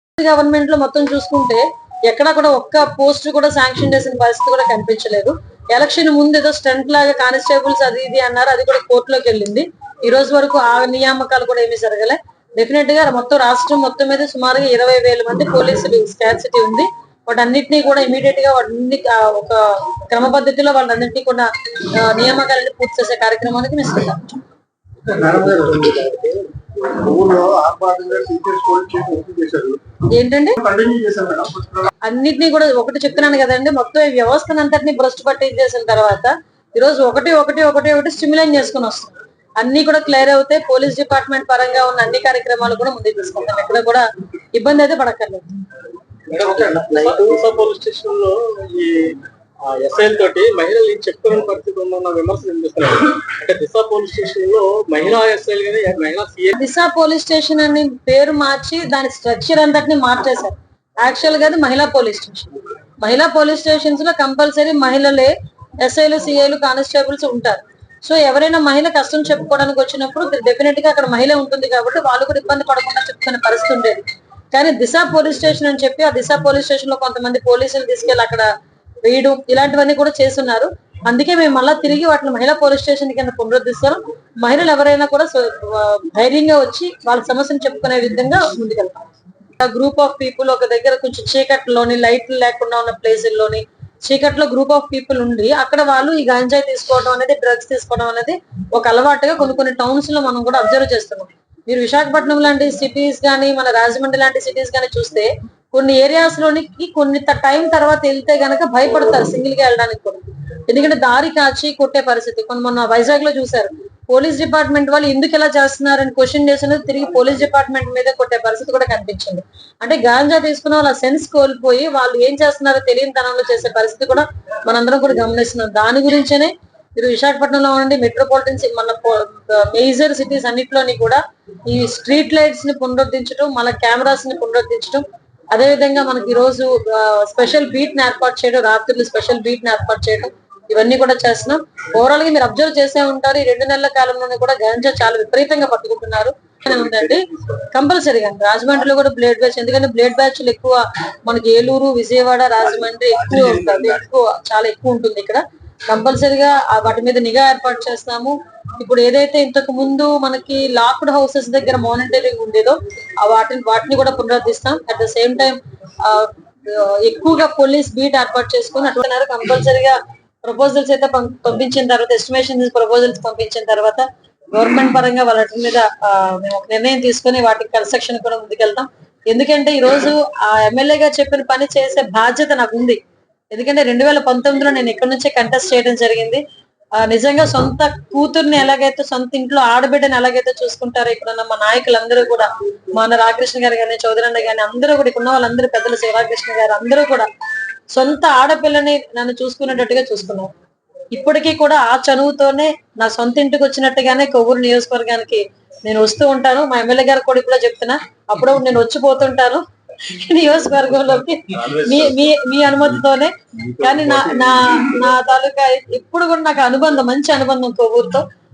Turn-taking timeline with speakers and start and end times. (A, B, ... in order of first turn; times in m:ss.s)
0:00.2-0:24.4 A
0:25.1-0:29.8 B
0:30.1-0:30.6 A
0:30.6-0:31.9 B
0:32.1-0:45.5 A
0:46.3-0:56.6 C
0:46.4-0:47.3 B
0:56.6-1:14.0 A
1:14.5-1:18.5 A
1:19.1-1:29.1 A
1:29.6-3:03.0 A
2:33.1-2:33.9 B
3:03.5-3:06.4 A
3:07.0-3:17.3 A
3:17.9-3:20.5 A
3:21.1-3:38.2 A
3:31.6-3:32.3 B
3:33.7-3:34.9 B